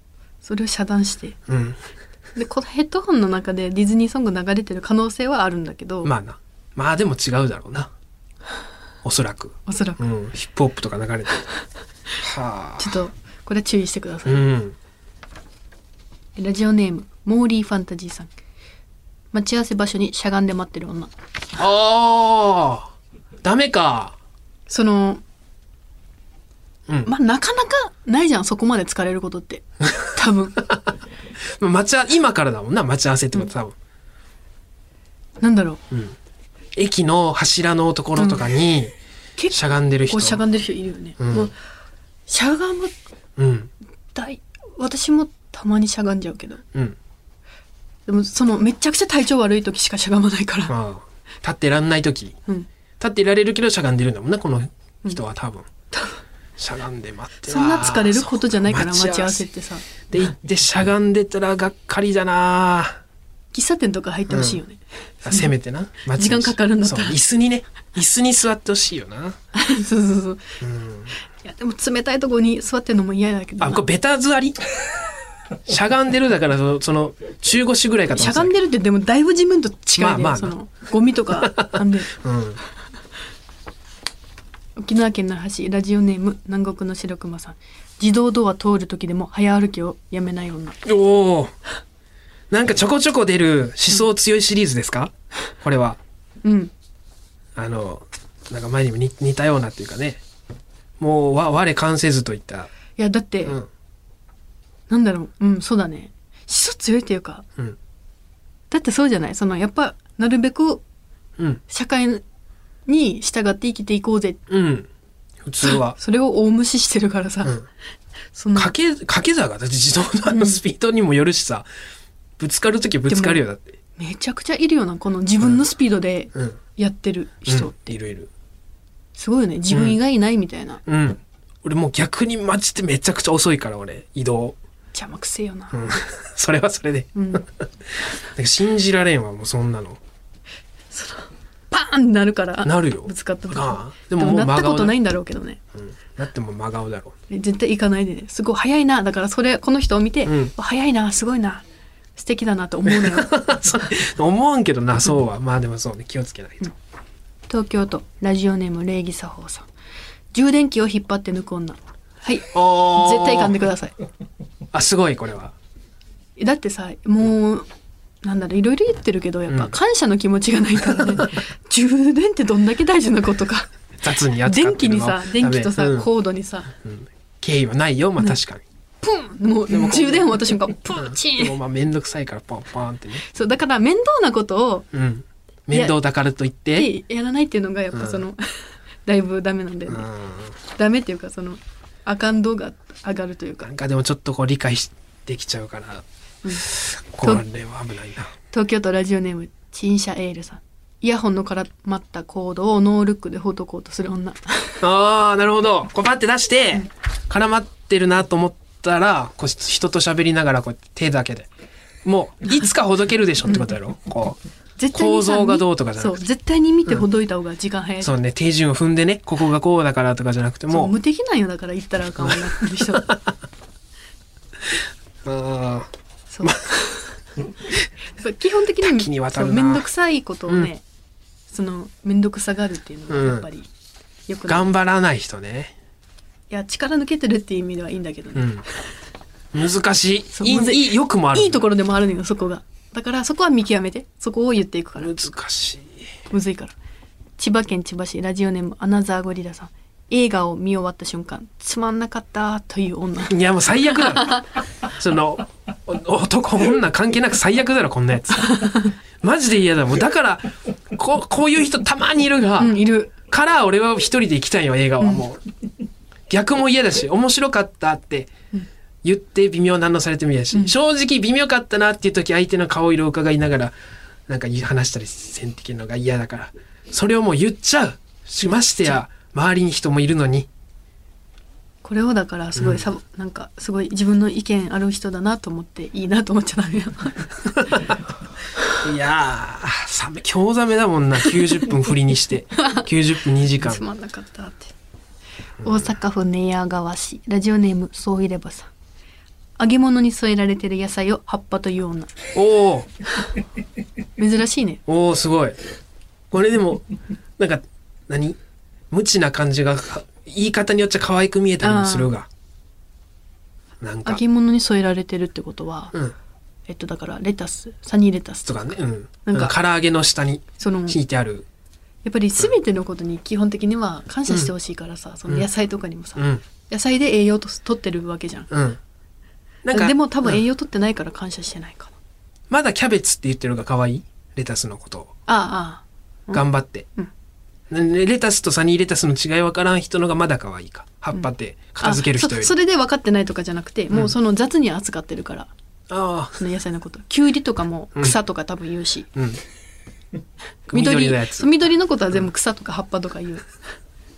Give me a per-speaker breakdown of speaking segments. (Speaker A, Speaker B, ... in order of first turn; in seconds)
Speaker A: 0.4-1.4, 2.4-6.1, 9.7-10.0, 12.8-14.5, 16.4-18.3, 19.3-21.1, 24.7-25.2, 27.1-30.7, 35.4-35.8, 39.4-41.5, 42.3-42.9, 44.1-46.6, 48.1-50.7, 57.4-59.8, 63.5-65.5, 66.1-67.2, 69.5-70.6, 71.4-73.8, 78.1-82.1, 84.8-90.8, 96.4-96.7, 103.0-103.6, 104.9-107.5, 108.7-110.8, 111.7-112.2, 112.9-114.4, 115.6-117.6, 118.3-118.7, 120.3-120.6, 123.1-123.4, 124.0-127.9, 129.2-130.8, 134.9-135.9, 137.1-137.4, 140.9-145.6, 147.3-151.6, 152.2-153.4, 157.5-159.7, 160.3-163.9, 166.4-167.7, 168.2-173.7, 174.4-176.7, 179.0-181.6, 183.2-184.9, 186.7-190.1, 190.7-193.7, 198.5-204.8, 214.8-218.1, 220.7-223.2, 226.3-227.1, 228.2-230.8, 231.5-233.7, 234.3-234.7, 236.5-238.6, 240.3-245.2, 246.3-246.7, 247.4-253.4, 253.9-254.4, 258.5-258.9, 262.6-263.1, 281.8-287.8, 292.6-292.9, 293.6-294.7, 295.6-298.7, 299.6-302.1, 304.2-304.8, 311.6-312.1, 314.0-315.9, 316.7-318.7, 319.2-319.5, 320.6-321.0, 322.0-328.5, 329.7-331.9, 335.3-337.1, 341.8-345.5, 346.4-349.1, 350.7-353.5
Speaker B: 1.5-1.8, 6.0-7.9, 9.0-11.5, 12.2-12.9, 14.2-14.8, 21.6-22.9, 23.4-24.1, 31.6-33.7, 35.9-36.1, 36.8-38.9, 39.5-40.4, 41.2-41.5, 43.4-43.7, 50.7-52.4, 53.0-55.7, 56.6-59.5, 60.1-63.0, 64.3-64.6, 65.2-69.4, 70.6-71.1, 73.6-74.6, 75.7-78.5, 79.9-80.5, 81.4-82.6, 90.8-91.5, 92.5-96.0, 97.5-100.2, 101.0-102.7, 114.5-114.9, 115.4-116.0, 118.5-121.7, 122.4-123.8, 127.5-128.3, 129.7-130.0, 130.8-134.6, 135.7-140.0, 142.6-145.0, 145.7-147.2, 150.2-150.5, 152.9-156.7, 162.5-163.6, 164.7-165.5, 169.5-169.7, 174.0-176.1, 176.8-178.6, 179.7-183.2, 184.9-186.9, 187.9-188.2, 189.9-190.6, 193.6-196.0, 196.6-198.3, 204.8-211.5, 212.0-214.4, 214.9-216.2, 218.0-220.9, 222.2-223.2, 225.2-225.9, 228.8-229.8, 233.1-233.4, 234.5-235.7, 238.3-238.6, 239.5-241.6, 245.0-246.1, 253.3-265.4, 266.3-268.3, 269.0-273.7, 274.3-280.5, 282.6-282.8, 288.8-293.8, 295.6-295.9, 302.3-302.9, 304.9-305.6, 306.3-308.4, 308.9-312.3, 313.8-314.2, 318.4-321.4, 326.2-326.4, 328.5-328.8, 329.6-330.4, 332.5-335.1, 336.3-336.9, 337.7-342.5, 345.9-346.4, 349.1-349.4, 350.7-351.5